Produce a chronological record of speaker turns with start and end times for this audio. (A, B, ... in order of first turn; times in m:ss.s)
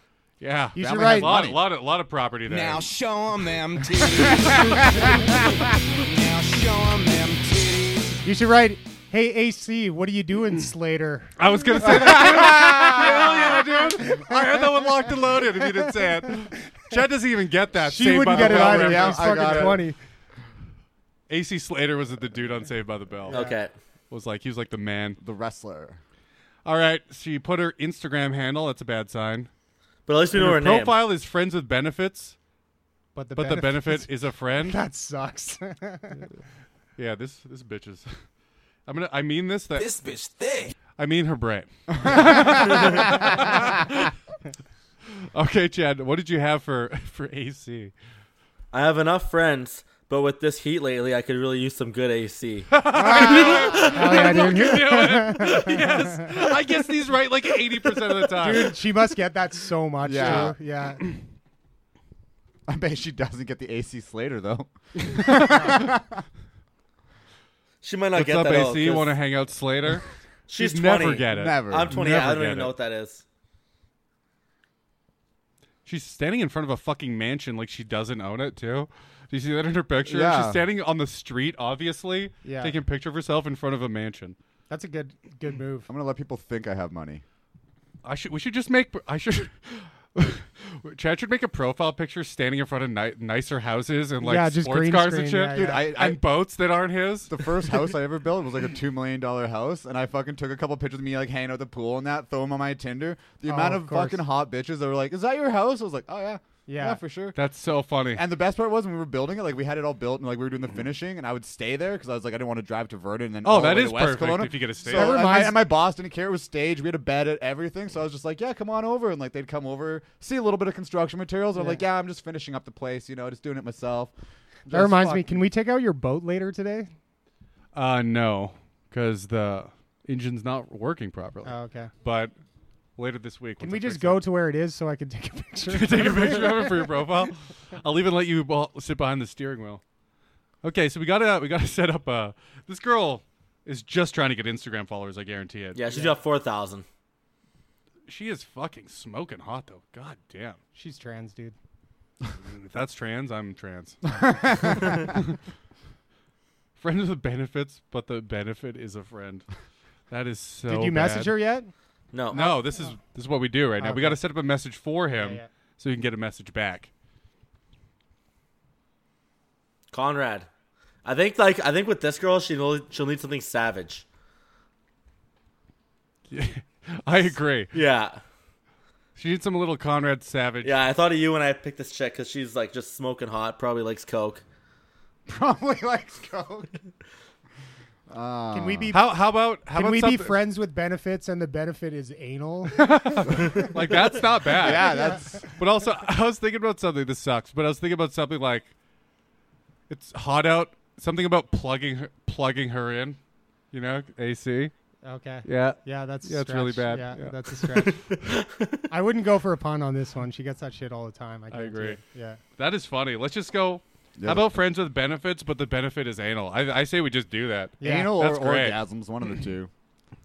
0:00.4-0:02.8 A
0:00.7-0:01.3 B
0:00.8-0:01.6 C
0:02.5-0:08.2 D
0:08.2-0:11.4 B
0:11.4-0:19.6 A
0:11.8-0:13.7 C
0:17.8-0:20.0 B
0:18.3-0:19.8 C
0:21.3-0:23.4 A
0:23.3-0:23.6 B
0:23.3-0:23.7 E
0:24.1-0:25.2 A
0:25.2-0:26.0 C
0:26.6-0:29.5 A
0:30.1-0:31.0 E
0:30.3-0:32.4 A
0:33.1-0:34.1 B
0:33.4-0:34.8 A
0:34.6-0:36.2 B
0:37.0-0:38.1 A
0:38.9-0:39.9 A
0:39.8-0:40.7 D
0:41.0-0:44.1 A
0:42.0-0:42.9 C
0:42.6-0:43.1 E
0:45.3-0:47.9 A
0:48.7-0:54.0 E
0:52.7-0:58.8 A
0:52.9-0:53.8 C
0:53.3-0:56.3 B
0:58.4-1:01.0 B
1:00.0-1:00.6 C
1:00.1-1:00.5 A
1:02.7-1:06.2 C
1:05.0-1:05.9 A
1:07.8-1:09.2 E
1:08.1-1:10.0 A
1:10.5-1:13.2 E
1:10.6-1:12.7 A
1:11.3-1:12.0 C
1:15.8-1:24.4 A
1:20.0-1:20.6 C
1:22.4-1:22.7 B
1:24.7-1:25.9 B
1:25.9-1:27.2 C
1:28.0-1:37.4 A
1:34.2-1:35.9 B
1:35.5-1:36.2 C
1:37.3-1:47.4 C
1:43.4-1:44.2 B
1:46.7-1:47.0 B
1:47.4-1:48.2 A
1:48.1-2:04.1 C
1:53.4-1:55.2 A
1:54.9-1:55.6 B
2:01.6-2:01.8 B
2:04.6-2:05.5 C
2:04.7-2:06.9 B
2:07.7-2:12.3 A
2:11.4-2:11.9 B
2:13.0-2:14.2 A
2:13.6-2:16.9 B
2:15.7-2:19.8 A
2:20.6-2:25.8 A
2:25.7-2:26.8 E
2:25.9-2:26.2 B
2:28.1-2:30.6 A
2:30.7-2:31.5 B
2:32.4-2:35.3 A
2:34.1-2:34.9 C
2:36.8-2:39.4 A
2:40.1-2:41.4 A
2:40.7-2:41.7 B
2:42.1-2:42.5 E
2:42.3-2:43.0 B
2:42.3-2:46.9 A
2:43.8-2:44.2 B
2:45.2-2:45.5 B
2:49.9-2:50.5 E
2:51.0-2:54.0 E
2:56.3-2:57.7 A
2:57.7-2:58.2 E
2:59.2-3:00.7 A
3:00.6-3:04.4 E
3:05.3-3:06.8 C
3:08.1-3:08.9 C
3:08.5-3:09.2 B
3:08.9-3:10.4 A
3:09.7-3:13.6 B
3:12.8-3:18.7 A
3:14.5-3:15.5 C
3:14.7-3:15.2 B
3:19.9-3:23.2 A
3:23.7-3:24.7 A
3:25.0-3:28.0 B
3:25.4-3:27.4 A
3:27.7-3:28.8 E
3:28.9-3:32.4 B
3:31.5-3:32.0 A
3:32.6-3:38.8 A
3:34.2-3:34.6 C
3:37.8-3:38.1 B
3:37.8-3:39.7 C